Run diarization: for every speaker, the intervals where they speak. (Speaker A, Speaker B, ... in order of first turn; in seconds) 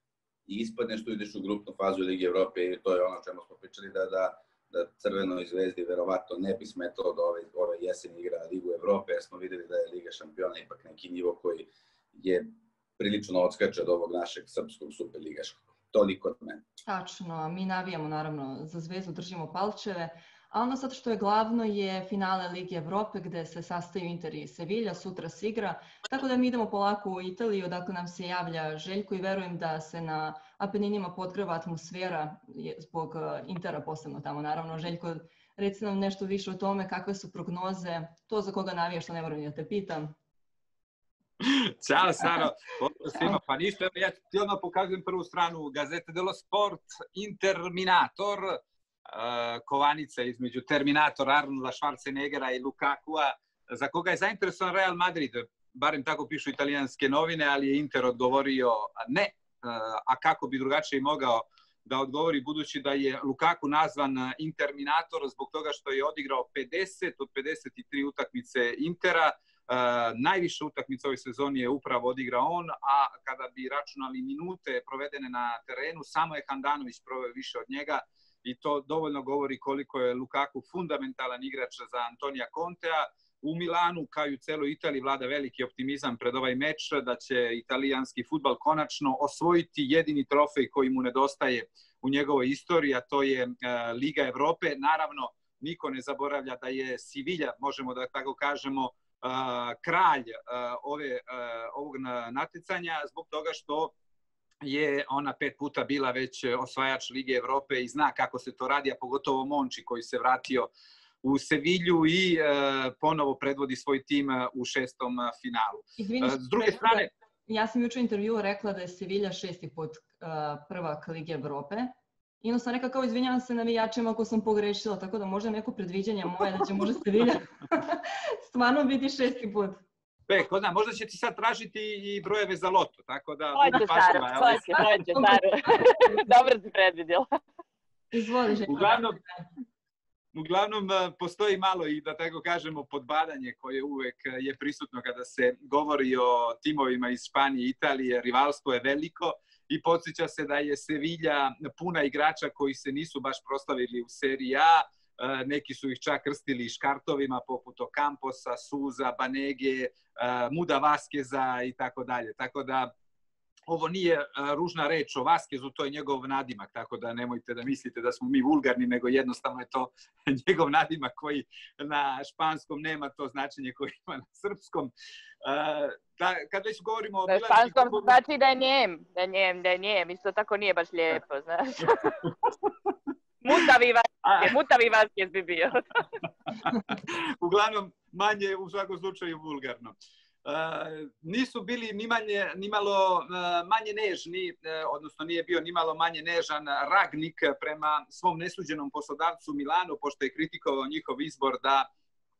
Speaker A: 0.5-12.5, 13.0-16.6
Speaker B: 16.8-40.1, 116.0-129.8, 134.7-135.4, 138.1-139.4
Speaker C: 41.4-48.6, 49.1-103.9, 104.6-110.7, 111.2-117.1, 130.3-135.3, 138.6-139.2, 140.3-162.9, 163.7-174.9, 175.4-178.2, 186.6-189.9, 190.4-201.8
Speaker D: 133.5-137.3, 177.3-182.3, 183.4-185.8